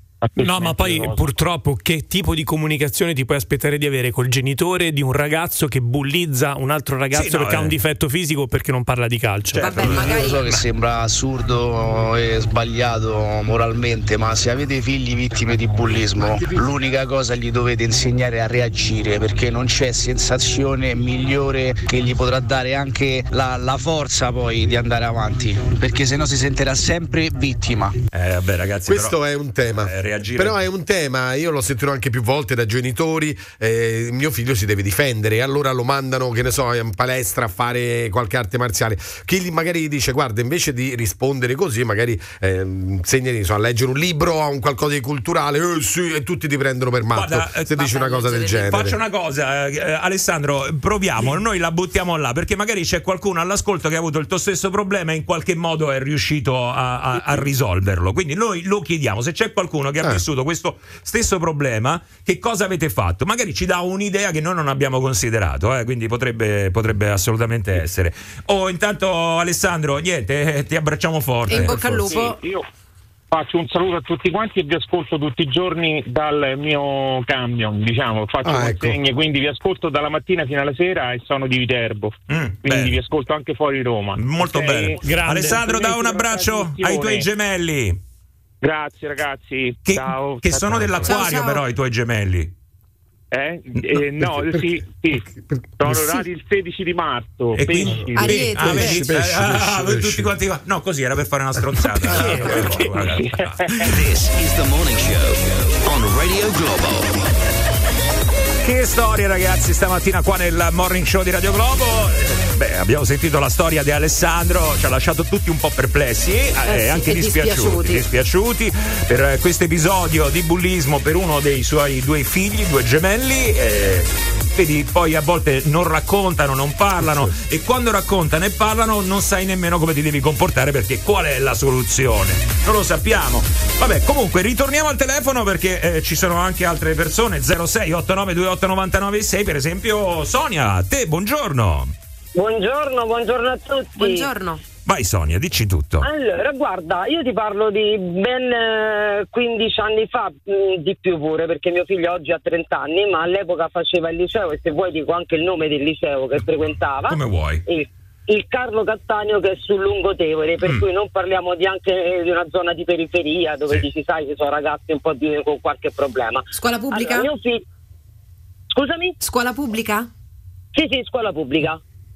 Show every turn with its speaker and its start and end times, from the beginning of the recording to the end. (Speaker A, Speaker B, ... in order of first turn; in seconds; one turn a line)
Speaker A: 0.2-1.2
Speaker B: 0.4-9.7
Speaker C: 7.1-7.7
Speaker C: 9.5-10.2
Speaker D: 9.6-10.4
Speaker E: 9.8-28.0
Speaker C: 28.1-29.2
Speaker F: 28.9-49.0
Speaker C: 29.8-30.6
Speaker C: 47.1-72.1
Speaker D: 47.9-48.7
Speaker D: 71.5-72.4
Speaker F: 71.7-72.0
Speaker A: 71.8-72.6
Speaker A: 73.3-87.3
Speaker F: 78.4-79.0
Speaker C: 82.3-83.0
Speaker C: 84.2-88.0
Speaker B: 85.0-85.7
Speaker A: 88.6-91.3
Speaker C: 89.8-92.5
Speaker D: 91.0-91.6
Speaker A: 93.3-95.2
Speaker F: 94.3-96.2
Speaker A: 95.8-98.6
Speaker C: 97.5-103.8
Speaker D: 98.2-99.1
Speaker F: 98.6-100.3
Speaker B: 102.0-103.1
Speaker A: 103.0-103.8
Speaker G: 103.8-107.1
Speaker C: 108.6-141.9
Speaker D: 116.7-118.0
Speaker F: 127.0-127.3
Speaker H: 142.3-144.3
Speaker D: 144.0-144.6
Speaker C: 144.8-146.1
Speaker H: 146.0-167.6
Speaker C: 157.1-157.6
Speaker D: 166.5-167.3
Speaker H: 168.7-169.2
Speaker D: 169.2-170.1
Speaker H: 170.7-171.8